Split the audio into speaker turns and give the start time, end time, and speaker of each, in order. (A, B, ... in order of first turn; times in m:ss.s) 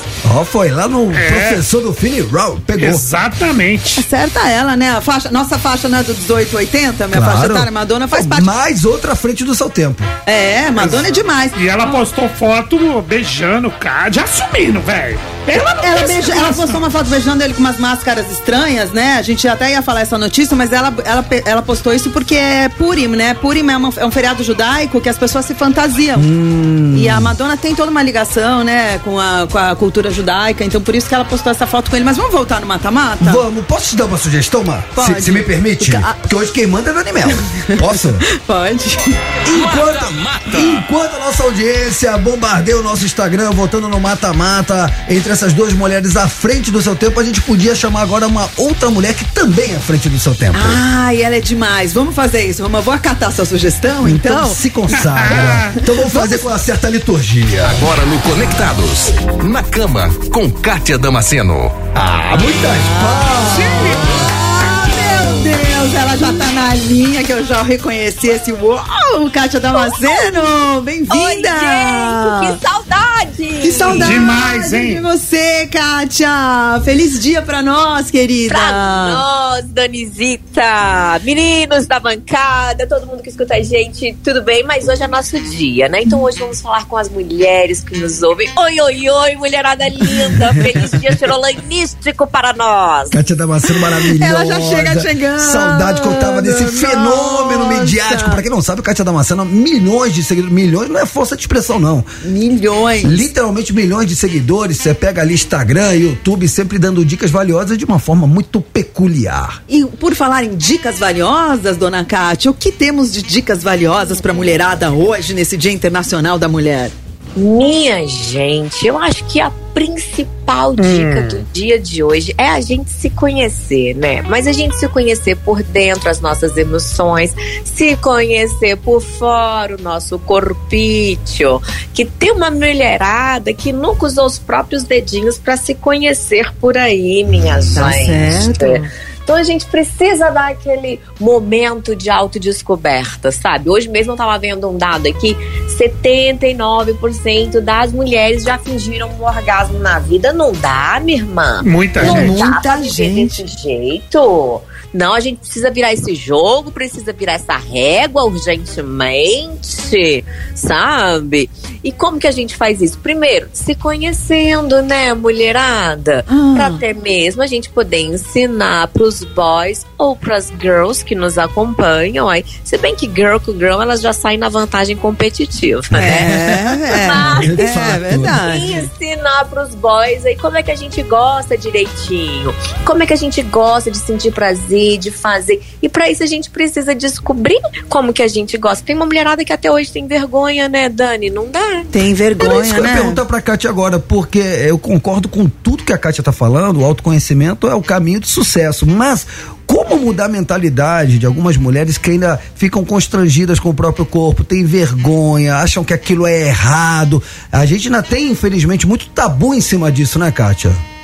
0:00.2-0:03.0 A
0:01.1-0:01.6 B
0:02.8-0:04.0 B
0:04.0-0:08.5 C
0:07.1-0:10.1 A
0:10.2-0:11.9 C
0:10.8-0:16.8 B
0:15.8-0:26.3 C
0:26.2-0:27.3 A
0:26.9-0:33.4 C
0:33.2-0:38.2 A
0:34.9-0:36.2 C
0:37.6-0:39.2 C
0:39.4-0:50.8 A
0:50.5-0:54.6 C
0:54.0-0:57.8 A
0:54.9-0:55.8 B
0:55.3-0:56.4 C
0:57.7-1:01.8 D
1:01.9-1:04.2 A
1:02.6-1:12.6 C
1:03.4-1:04.3 B
1:11.1-1:14.2 E
1:13.6-1:19.2 C
1:13.9-1:15.0 B
1:18.5-1:33.2 E
1:30.4-1:30.8 A
1:33.1-1:42.1 A
1:33.7-1:38.4 C
1:42.2-1:43.1 C
1:43.0-1:49.6 A
1:49.7-1:56.9 C
1:57.4-2:56.3 E
2:00.8-2:01.4 B
2:17.7-2:18.9 C
2:31.6-2:32.3 B
2:32.0-2:33.4 C
2:46.3-2:46.8 C
2:55.9-2:58.5 A
2:55.9-2:58.9 C
2:56.9-2:57.6 E
2:58.3-3:11.9 E
3:11.9-3:13.2 C
3:12.4-3:30.8 A